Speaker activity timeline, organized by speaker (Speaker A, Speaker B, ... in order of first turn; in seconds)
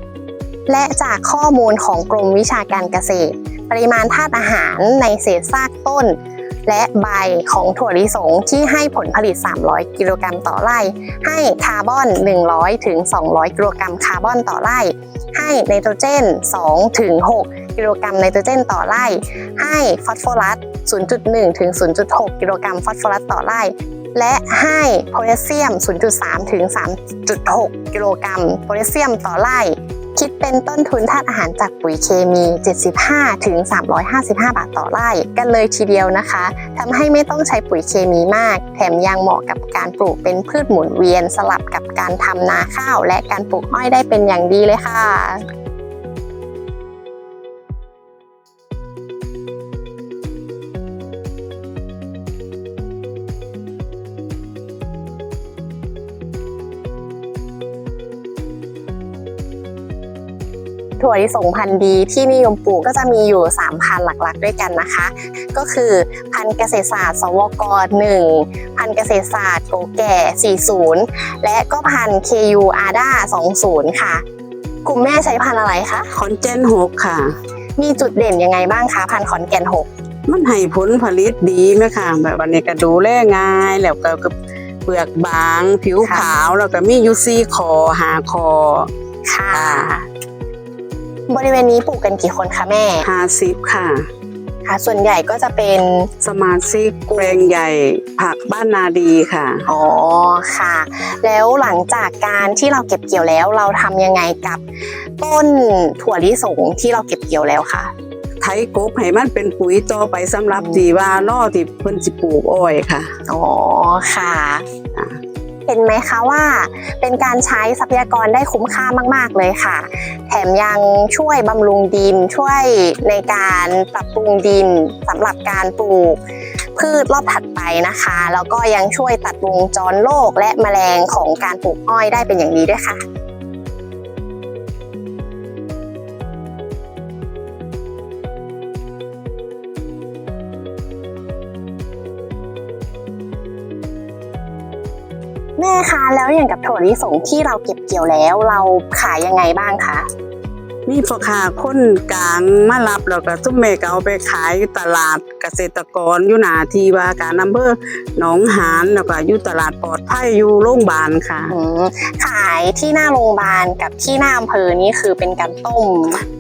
Speaker A: 0.7-45.5, 61.0-74.2, 74.8-76.1, 77.8-79.9, 86.0-86.3, 89.3-90.1, 91.3-93.1, 94.7-96.1, 99.7-104.6, 105.2-107.9, 110.5-110.9, 113.3-114.7, 115.7-126.2, 126.8-133.0, 145.6-150.1, 161.5-166.2
Speaker B: 76.2-77.3, 80.3-84.3, 84.9-88.9, 89.6-89.9, 93.1-94.0, 96.3-99.6, 108.4-113.1, 150.9-161.5